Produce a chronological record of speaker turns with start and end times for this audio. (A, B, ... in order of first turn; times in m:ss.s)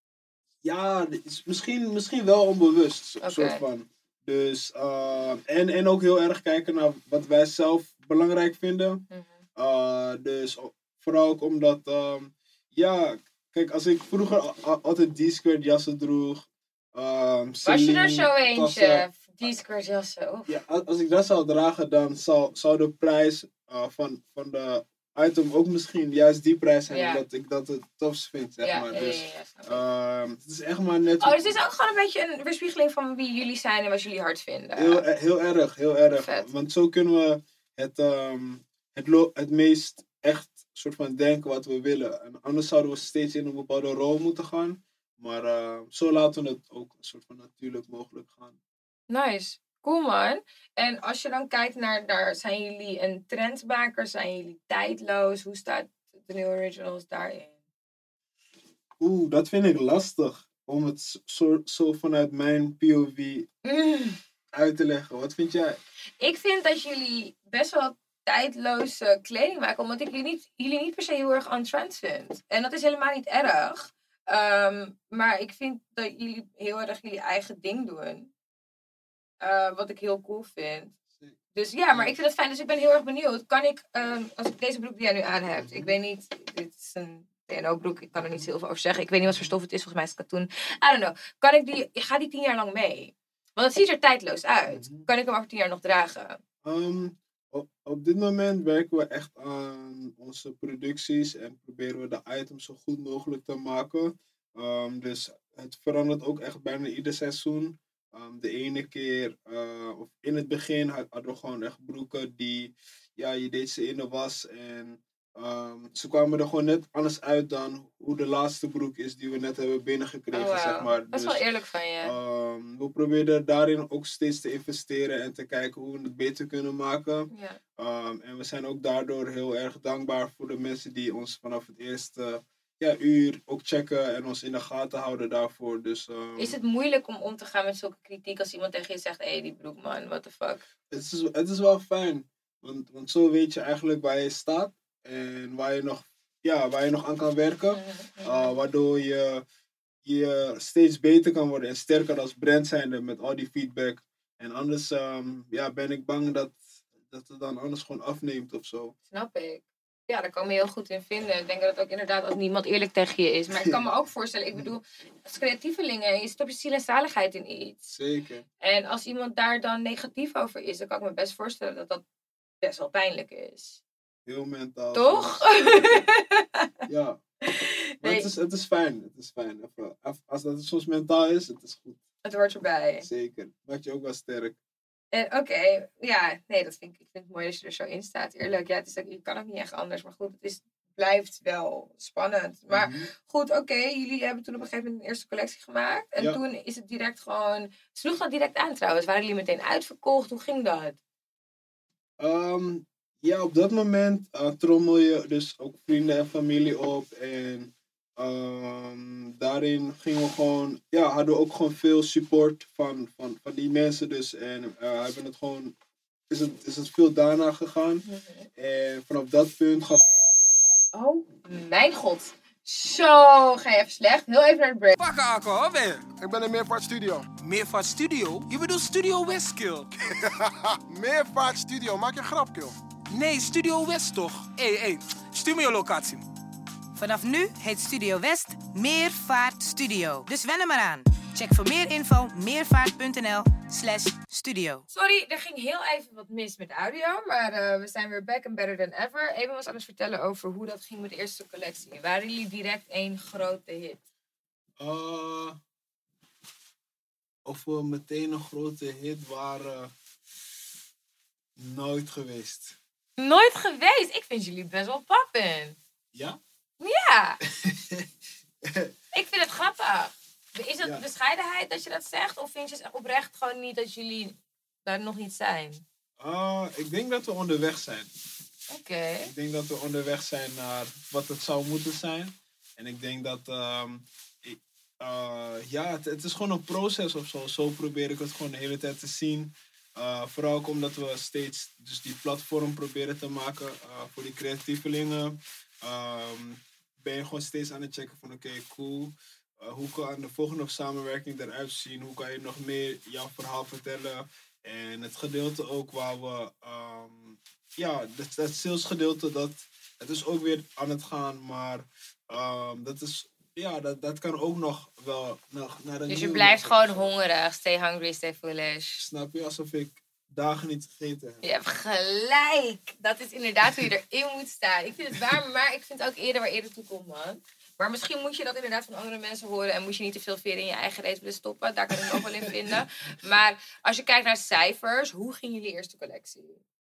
0:00.6-0:09.0 A
0:03.2-0:03.6 B
0:09.1-0:09.4 B
0:09.6-0:19.0 A
0:17.6-0:20.5 B
0:20.5-0:31.6 A
0:26.9-0:27.2 B
0:28.6-0:29.8 B
0:31.2-0:35.0 B
0:34.8-0:48.6 A
0:36.2-0:36.5 B
0:49.1-0:57.6 B
0:59.0-1:03.5 A
1:03.6-1:04.2 B
1:04.5-1:05.8 A
1:06.2-1:18.3 B
1:19.4-1:20.9 B
1:21.1-1:21.4 A
1:21.5-1:36.4 B
1:25.5-1:25.9 A
1:28.2-1:28.5 A
1:29.2-1:29.5 A
1:34.7-1:35.0 A
1:36.6-2:01.4 A
2:00.3-2:02.2 B
2:02.0-2:16.6 A
2:07.3-2:07.6 B
2:16.4-2:20.6 B
2:20.9-2:29.4 A
2:27.7-2:28.6 B
2:30.0-2:38.9 A
2:39.1-2:47.8 B
2:43.5-2:43.8 A
2:47.9-2:48.4 A
2:48.6-2:52.0 B
2:52.6-2:53.8 B
2:54.2-2:56.1 A
2:54.9-2:56.7 B
2:56.9-2:57.2 A
2:57.4-2:58.3 B
2:58.0-3:02.0 A
3:02.2-3:03.0 B
3:03.0-3:04.6 A
3:05.1-3:21.0 B
3:12.7-3:13.1 A
3:22.2-3:35.7 A
3:36.3-3:38.0 A
3:38.0-3:38.5 B
3:38.6-3:40.0 A
3:40.9-3:45.0 B
3:45.0-3:46.1 C
3:46.1-3:47.3 D
3:47.4-3:49.9 C
3:50.0-3:52.8 D
3:53.1-3:56.2 C
3:57.0-4:04.8 E
4:04.9-4:14.0 B
4:14.8-4:15.6 A
4:17.4-4:19.9 A
4:21.6-4:22.8 A
4:23.2-4:25.8 B
4:26.1-4:26.4 A
4:26.8-4:27.4 B
4:27.5-4:28.1 A
4:28.6-4:28.9 A
4:29.1-4:35.8 B
4:36.2-4:38.1 A
4:38.7-4:39.3 B
4:39.2-5:17.1 A
5:16.1-5:19.0 B
5:19.0-5:21.4 A
5:21.4-5:36.6 B
5:31.9-5:32.8 A